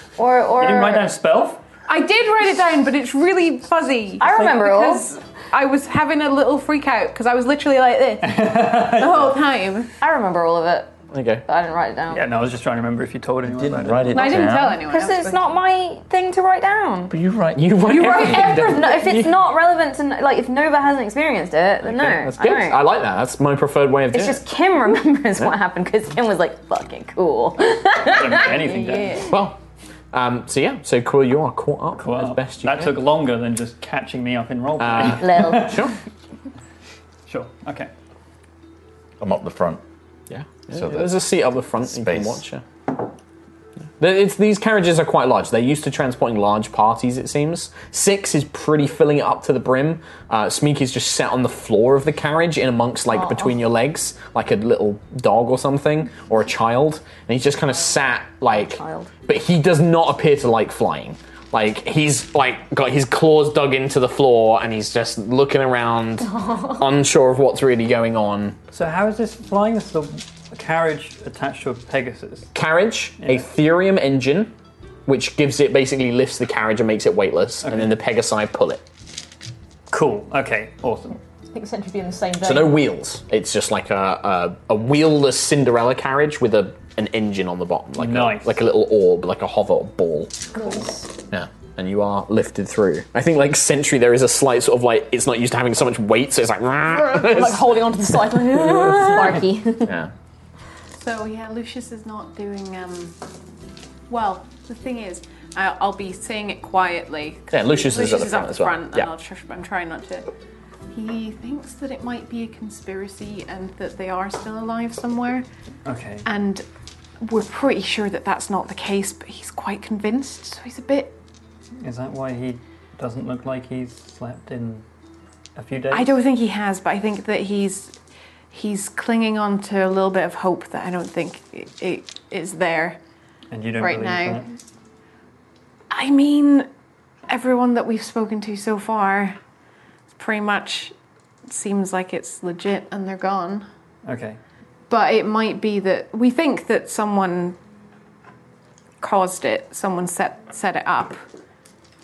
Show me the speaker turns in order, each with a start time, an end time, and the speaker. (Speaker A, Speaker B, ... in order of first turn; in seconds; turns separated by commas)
Speaker A: 0.2-1.1, Speaker B: 0.6-1.6, Speaker C: 1.9-9.9, Speaker A: 4.2-5.1, Speaker B: 8.2-9.4, Speaker A: 10.0-12.3, Speaker D: 11.1-11.4, Speaker B: 12.1-14.4, Speaker E: 13.5-14.8, Speaker C: 14.1-15.5, Speaker A: 14.9-17.2, Speaker E: 17.1-18.4, Speaker D: 17.5-19.4, Speaker A: 17.9-22.8, Speaker C: 18.0-18.6, Speaker D: 21.8-24.4, Speaker A: 24.1-29.3, Speaker B: 28.1-29.3, Speaker D: 29.2-29.6, Speaker D: 30.1-33.0, Speaker B: 32.0-35.9, Speaker D: 34.8-36.0, Speaker A: 35.1-35.9, Speaker B: 37.3-37.9, Speaker E: 39.2-39.8, Speaker D: 40.3-42.6, Speaker E: 40.8-41.2, Speaker E: 41.9-42.4, Speaker D: 44.0-68.6, Speaker A: 53.1-53.5, Speaker A: 58.5-59.1, Speaker A: 66.3-66.9, Speaker B: 68.7-72.5, Speaker D: 72.5-74.5, Speaker B: 73.2-73.5, Speaker D: 75.1-78.8, Speaker B: 77.6-78.0, Speaker B: 79.9-81.2, Speaker F: 81.5-82.7, Speaker D: 82.4-90.6, Speaker B: 88.0-88.6, Speaker D: 91.3-97.8, Speaker F: 97.2-98.8, Speaker A: 98.1-100.0, Speaker D: 99.8-100.1, Speaker C: 101.0-103.2, Speaker C: 104.1-110.3, Speaker D: 107.5-109.1, Speaker C: 110.9-115.5, Speaker B: 115.8-116.3, Speaker C: 116.2-116.6, Speaker C: 117.2-121.2, Speaker B: 121.8-124.8, Speaker B: 125.6-126.1, Speaker C: 125.9-127.9, Speaker C: 128.5-133.0, Speaker B: 133.5-134.5, Speaker C: 133.8-134.5, Speaker C: 135.9-136.7, Speaker C: 137.3-139.4, Speaker C: 140.1-140.9, Speaker C: 141.5-143.7, Speaker B: 144.1-144.4, Speaker C: 144.9-147.6, Speaker C: 149.0-151.2